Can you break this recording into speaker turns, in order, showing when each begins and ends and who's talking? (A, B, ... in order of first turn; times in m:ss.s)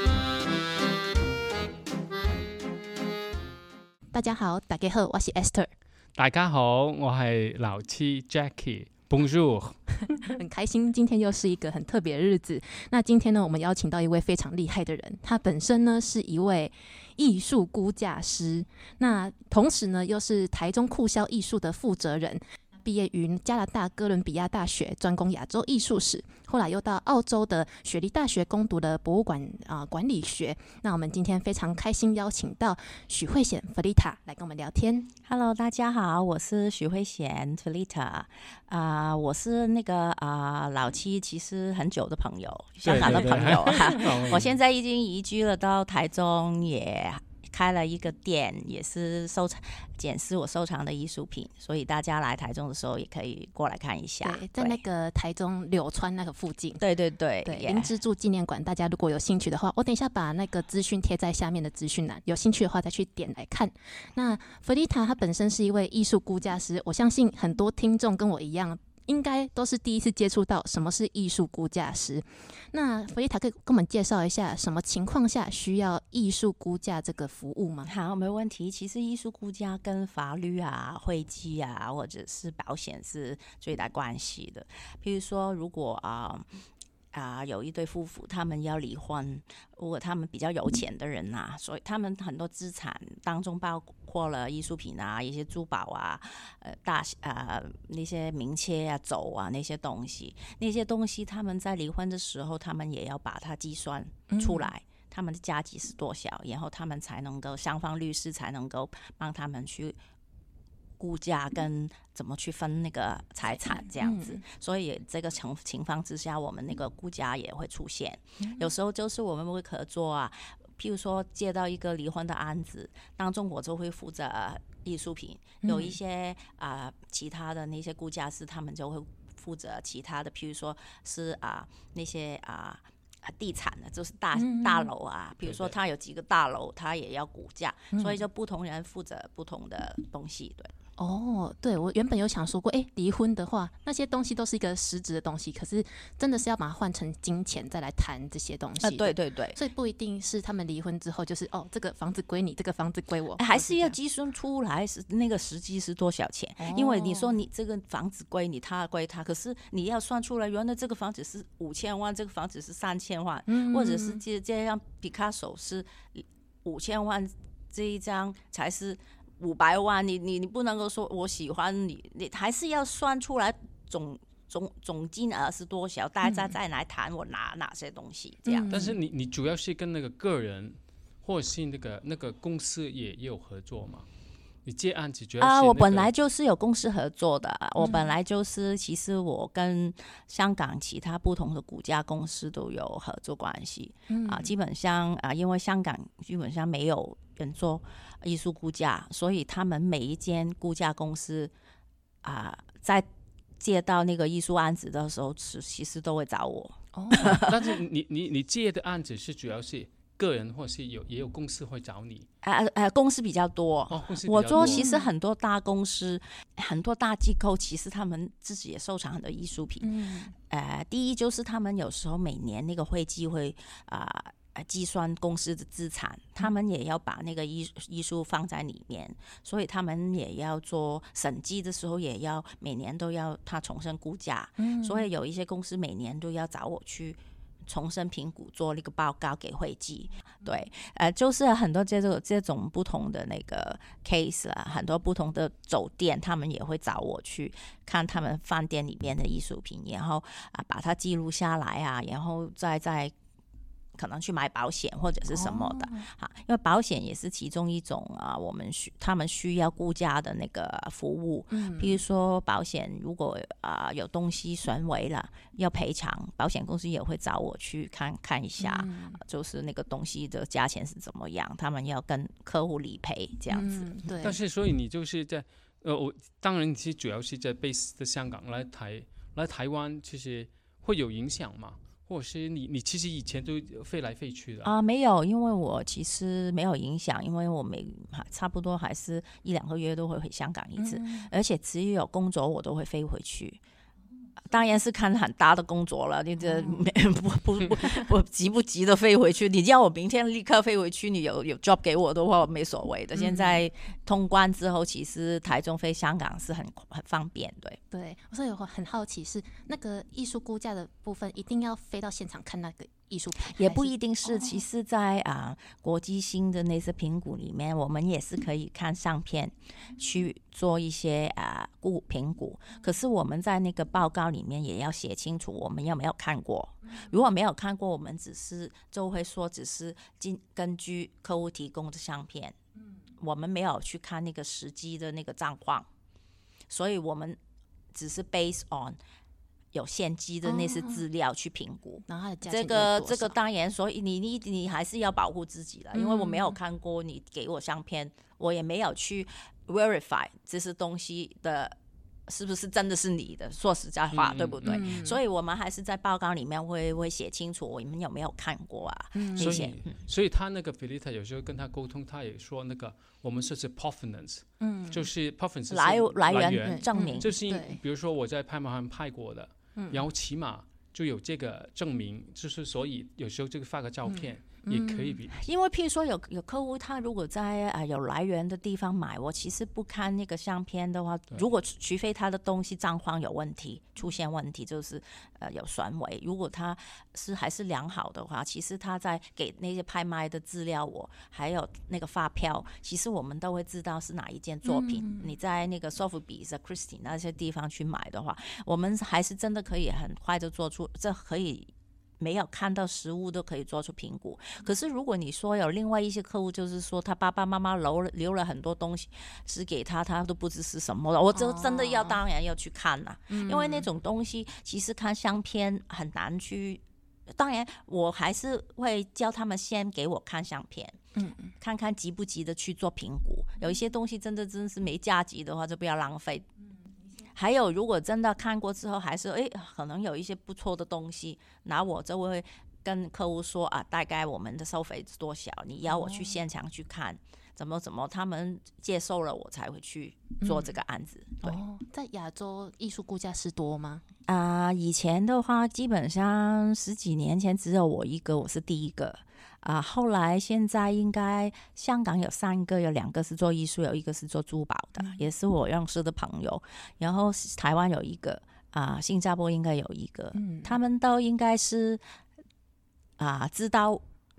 0:04.1-0:05.7 A
0:06.2-0:09.8 B
0:10.0-0:35.1 A
0:35.2-0:54.8 C
0:42.8-0:44.5 B
0:54.2-0:56.8 A
0:56.8-0:57.9 C
0:57.4-1:17.9 A
1:17.9-1:26.4 C
1:27.1-1:50.0 C
1:44.3-1:44.7 A
1:51.0-2:20.7 C
1:54.0-1:54.4 A
1:58.4-1:58.7 A
2:05.6-2:06.0 A
2:14.3-2:14.9 A
2:15.4-2:15.8 B
2:17.9-2:18.2 A
2:21.0-2:34.0 A
2:28.8-2:29.6 C
2:33.4-2:58.8 C
2:36.6-2:37.4 A
2:43.5-2:44.2 A
2:56.2-2:56.5 A
2:58.4-2:59.0 A
2:58.7-3:04.0 B
3:04.6-3:06.1 B
3:05.4-3:21.5 C
3:07.8-3:08.0 A
3:14.1-3:14.5 A
3:22.2-3:23.0 C
3:23.6-3:27.6 C
3:26.9-3:27.5 A
3:27.3-3:32.3 B
3:32.4-3:39.9 C
3:33.9-3:34.8 B
3:34.6-3:35.1 A
3:39.8-3:40.3 A
3:40.4-4:13.1 C
3:54.6-3:55.1 A
4:14.0-4:33.9 C
4:15.3-4:16.1 A
4:21.5-4:22.0 A
4:28.6-4:29.2 A
4:33.5-4:34.4 A
4:34.2-4:44.7 B
4:44.6-4:53.6 C
4:50.8-4:51.3 A
4:54.4-5:07.8 C
4:56.4-4:56.8 A
5:03.1-5:03.6 A
5:07.9-5:14.6 A
5:13.4-5:32.6 C
5:33.2-5:35.9 C
5:36.7-5:37.4 C
5:37.9-5:39.0 C
5:39.7-5:51.7 C
5:40.4-5:41.0 A
5:42.1-5:43.4 A
5:45.9-5:46.6 A
5:52.3-5:59.8 C
5:54.1-5:54.9 B
5:54.6-5:55.2 A
5:59.1-5:59.7 A
5:59.4-6:15.4 B
6:04.6-6:05.1 A
6:05.7-6:07.3 C
6:06.6-6:07.8 A
6:09.8-6:10.0 A
6:14.1-6:15.2 A
6:15.3-6:41.7 C
6:34.6-6:35.3 A
6:42.2-7:01.0 C
6:51.3-6:52.2 A
6:53.3-6:53.9 A
7:01.2-7:01.5 A
7:01.6-7:06.4 C
7:07.3-7:21.6 C
7:15.9-7:16.4 A
7:20.4-7:20.7 A
7:21.4-7:24.0 A
7:24.2-7:42.0 C
7:35.0-7:35.2 A
7:40.3-7:40.8 A
7:43.2-7:44.0 C